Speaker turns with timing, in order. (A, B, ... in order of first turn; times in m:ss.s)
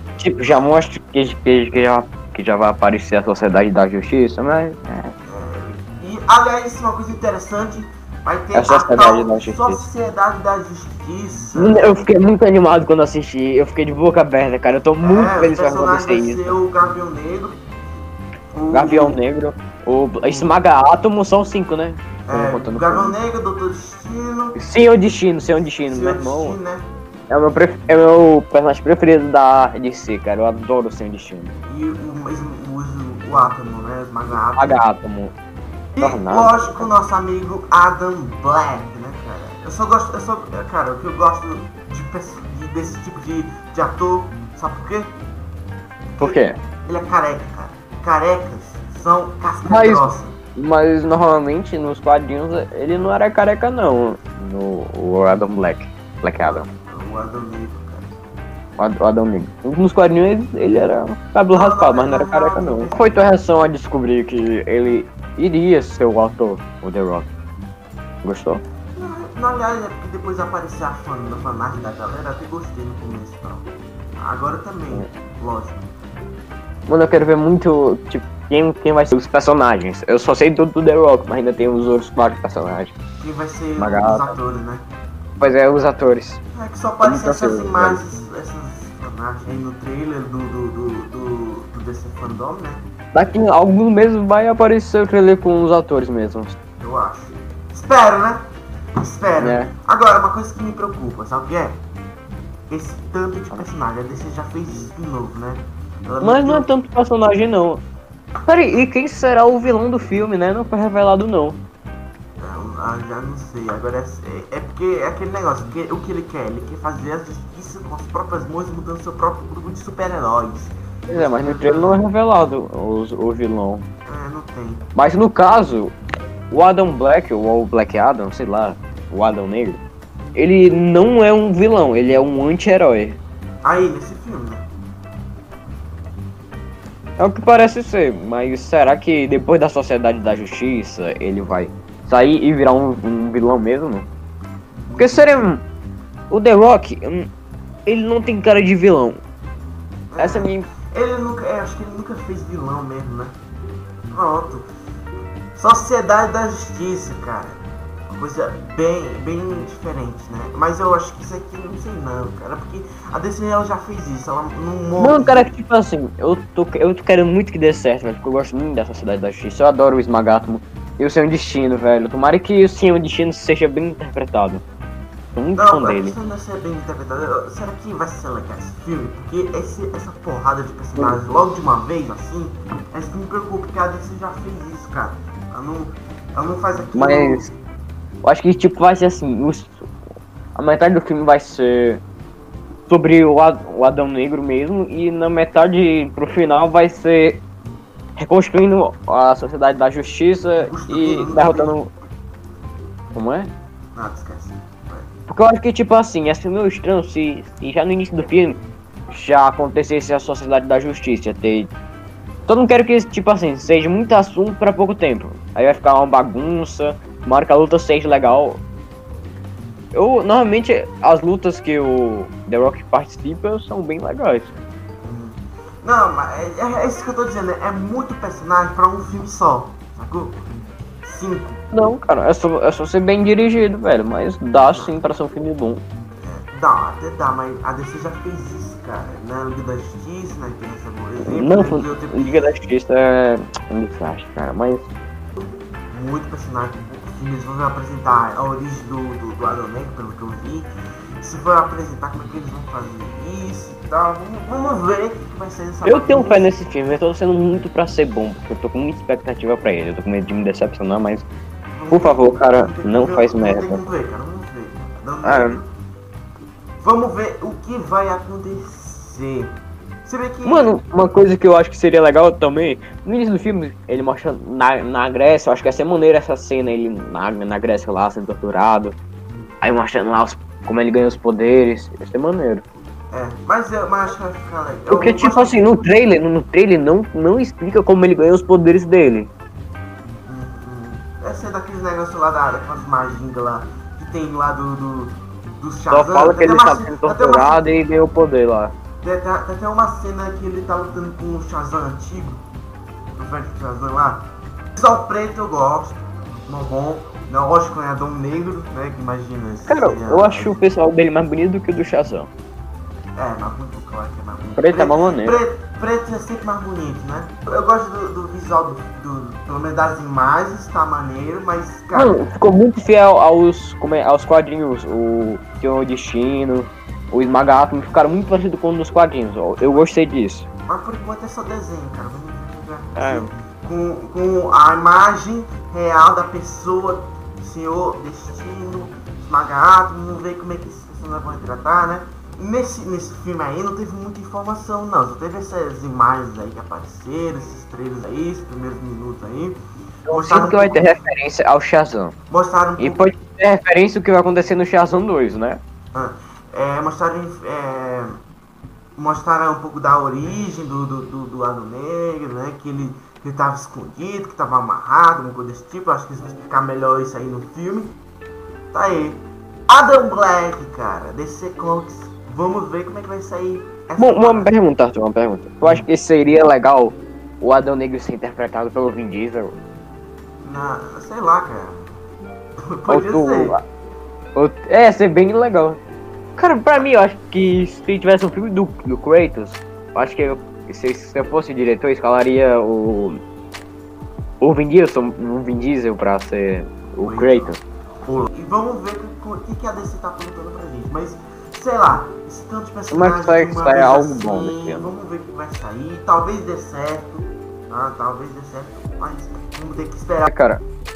0:00.2-0:05.1 A
0:05.2-0:12.0 B
0:08.5-0:09.8 A
0:11.6-0:16.6 A
0:15.0-0:17.6 B
0:18.5-0:19.2 B
0:18.7-0:23.2 A
0:20.2-0:20.6 B
0:22.3-0:24.6 B
0:24.5-0:26.6 A
0:25.8-0:26.8 B
0:27.3-0:31.5 A
0:31.7-0:34.8 B
0:34.6-0:35.3 A
0:35.9-0:45.1 B
0:36.0-0:36.9 A
0:46.1-0:50.4 B
0:46.2-0:46.6 A
0:49.6-0:56.7 A
0:56.9-0:58.2 B
0:58.8-1:07.3 A
1:01.5-1:03.3 B
1:08.2-1:08.6 A
1:09.0-1:13.7 B
1:14.2-1:15.8 B
1:16.9-1:22.9 A
1:23.2-1:24.8 B
1:23.8-1:24.3 A
1:25.4-1:26.4 A
1:26.5-1:32.8 B
1:27.0-1:28.0 A
1:33.1-1:36.6 A
1:36.8-1:38.4 B
1:39.0-1:41.8 B
1:39.4-1:39.7 A
1:42.7-1:46.7 B
1:46.2-1:47.8 A
1:48.4-1:51.6 A
1:52.4-2:02.0 B
2:01.1-2:03.8 A
2:04.0-2:04.9 B
2:05.0-2:05.9 A
2:06.5-2:09.8 A
2:10.3-2:13.2 A
2:13.6-2:14.6 B
2:17.2-2:24.1 A
2:24.8-2:25.5 B
2:25.0-2:25.6 A
2:26.3-2:27.3 A
2:27.8-2:29.2 A
2:30.1-2:33.4 B
2:30.2-2:30.7 A
2:34.1-2:34.7 B
2:35.5-2:37.6 B
2:38.1-2:45.5 B
2:45.0-2:54.6 A
2:55.4-2:56.2 A
2:55.5-3:07.5 B
3:06.9-3:07.5 A
3:08.2-3:09.9 A
3:10.5-3:12.0 A
3:12.9-3:17.4 A
3:18.2-3:21.9 A
3:20.6-3:21.8 B
3:23.1-3:23.5 A
3:24.0-3:25.1 B
3:25.3-3:31.7 A
3:32.5-3:38.6 A
3:39.9-3:44.6 A
3:45.0-3:50.4 B
3:51.0-3:51.6 B
3:51.7-3:55.8 A
3:54.7-3:55.0 B
3:56.2-4:02.5 B
4:01.2-4:04.9 A
4:05.9-4:10.7 B
4:11.2-4:16.5 B
4:15.8-4:21.3 A
4:21.7-4:25.7 B
4:21.9-4:23.8 A
4:25.2-4:25.6 A
4:26.8-4:29.5 B
4:30.0-4:30.8 B
4:30.4-4:39.0 A
4:39.6-4:42.6 A
4:43.1-4:45.7 B
4:44.9-4:49.3 A
4:50.2-4:57.6 B
4:55.9-4:58.7 A
4:59.0-5:02.4 B
5:03.2-5:10.6 B
5:09.7-5:12.3 A
5:13.2-5:22.2 B
5:14.6-5:15.4 A
5:21.9-5:30.4 A
5:29.6-5:29.9 B
5:30.7-5:49.6 B
5:33.0-5:33.3 A
5:50.1-5:52.1 A
5:50.1-5:50.9 B
5:52.3-5:53.1 B
5:52.8-5:55.6 A
5:55.9-5:58.2 B
5:59.0-6:08.0 B
6:08.7-6:14.5 B
6:14.0-6:19.6 A
6:15.6-6:15.9 B
6:20.4-6:21.8 B
6:22.8-6:23.6 B
6:22.9-6:23.6 A
6:24.4-6:25.8 A
6:26.4-6:33.2 A
6:34.4-6:37.6 A
6:37.0-6:50.3 B
6:42.9-6:44.9 A
6:50.3-6:50.6 A